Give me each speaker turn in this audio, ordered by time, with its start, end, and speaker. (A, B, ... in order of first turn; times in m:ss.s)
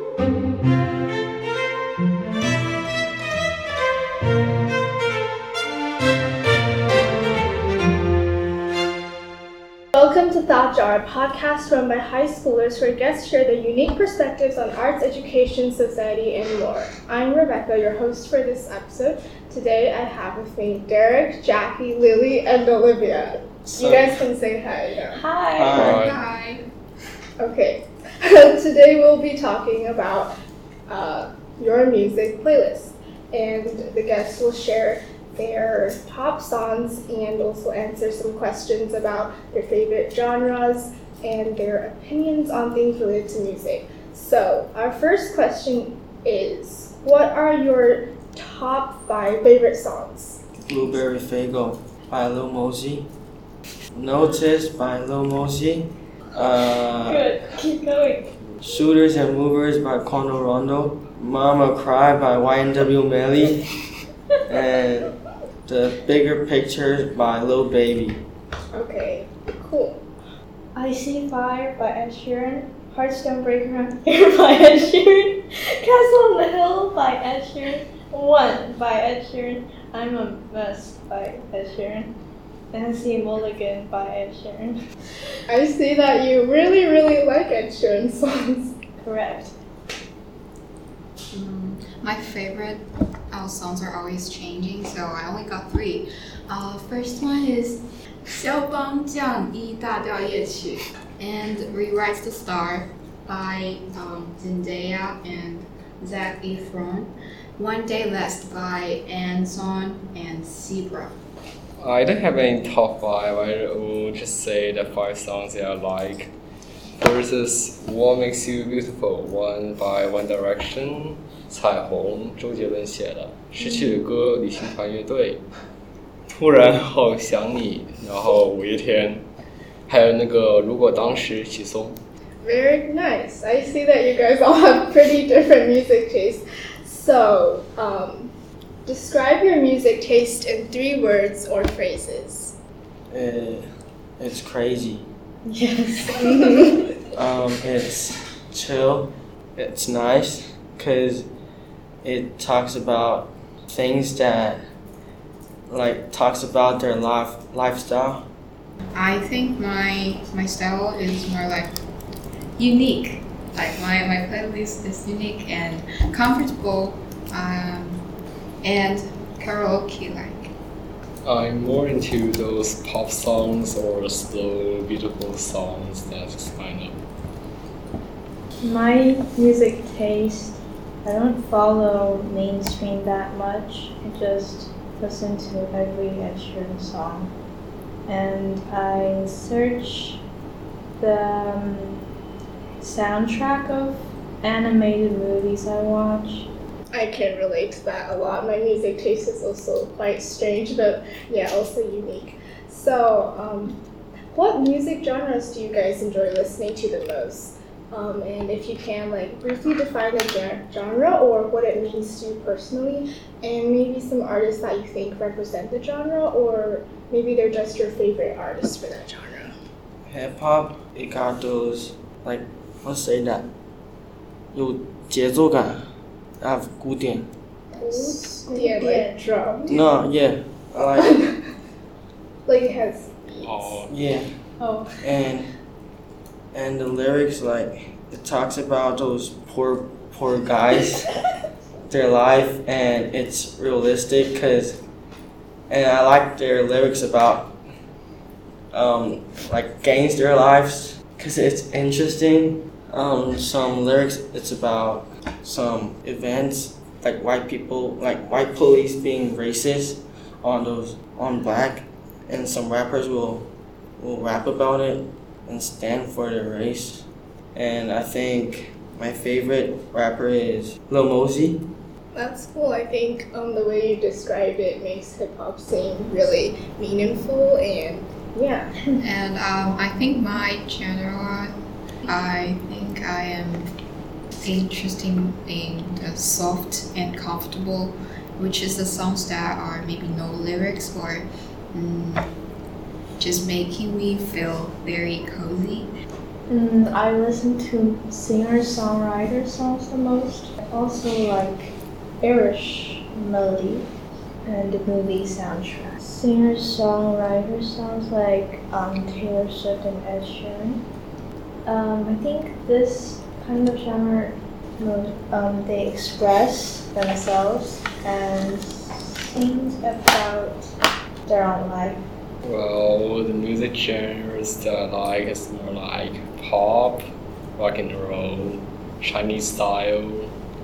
0:09.9-0:25.2 A
0:23.6-0:24.2 B
0:25.1-0:25.9 C
0:25.5-0:26.1 B
0:25.7-0:26.2 D
0:26.0-0:26.6 E
0:27.4-0:30.3 A
0:30.9-0:50.4 A
0:50.7-0:53.1 B
0:53.9-0:57.2 B
0:57.0-0:58.4 C
0:58.6-1:03.6 B
1:04.5-1:05.1 B
1:05.6-1:08.2 B
1:08.7-1:10.0 A
1:10.7-1:22.1 C
1:22.7-1:24.8 C
1:25.5-1:28.7 A
1:29.0-1:29.5 C
1:31.3-1:51.2 E
1:51.8-1:56.3 D
1:57.0-2:05.4 D
2:03.6-2:04.0 C
2:06.3-2:09.2 D
2:09.9-2:12.0 D
2:12.4-2:18.3 A
2:18.8-2:22.5 A
2:23.1-2:23.6 B
2:24.2-2:25.0 B
2:25.4-2:26.9 C
2:27.1-2:31.3 B
2:32.0-2:34.6 B
2:35.7-2:38.3 B
2:38.9-2:41.7 E
2:42.6-2:48.0 E
2:48.6-2:50.5 E
2:51.2-2:57.0 D
2:58.6-3:07.3 C
3:08.0-3:10.2 C
3:11.0-3:12.0 C
3:12.8-3:16.5 C
3:16.9-3:23.8 A
3:24.3-3:39.5 A
3:40.0-3:43.5 B
3:44.5-3:45.8 B
3:46.4-3:47.3 B
3:47.8-3:49.7 A
3:47.8-3:49.8 C
3:49.7-3:51.1 B
3:52.4-3:53.8 A
3:53.4-3:53.9 D
3:53.9-3:54.3 B
3:54.6-3:55.1 C
3:55.0-3:55.5 B
3:56.5-4:01.1 B
4:01.9-4:04.8 B
4:05.7-4:07.6 B
4:08.7-4:31.6 B
4:32.1-4:38.7 A
4:39.0-4:41.5 E
4:42.0-4:43.7 E
4:44.4-4:52.3 E
4:53.2-4:55.9 E
4:56.5-5:03.9 C
5:04.4-5:10.8 C
5:11.6-5:20.7 C
5:21.2-5:22.0 C
5:22.4-5:27.0 D
5:27.6-5:30.3 D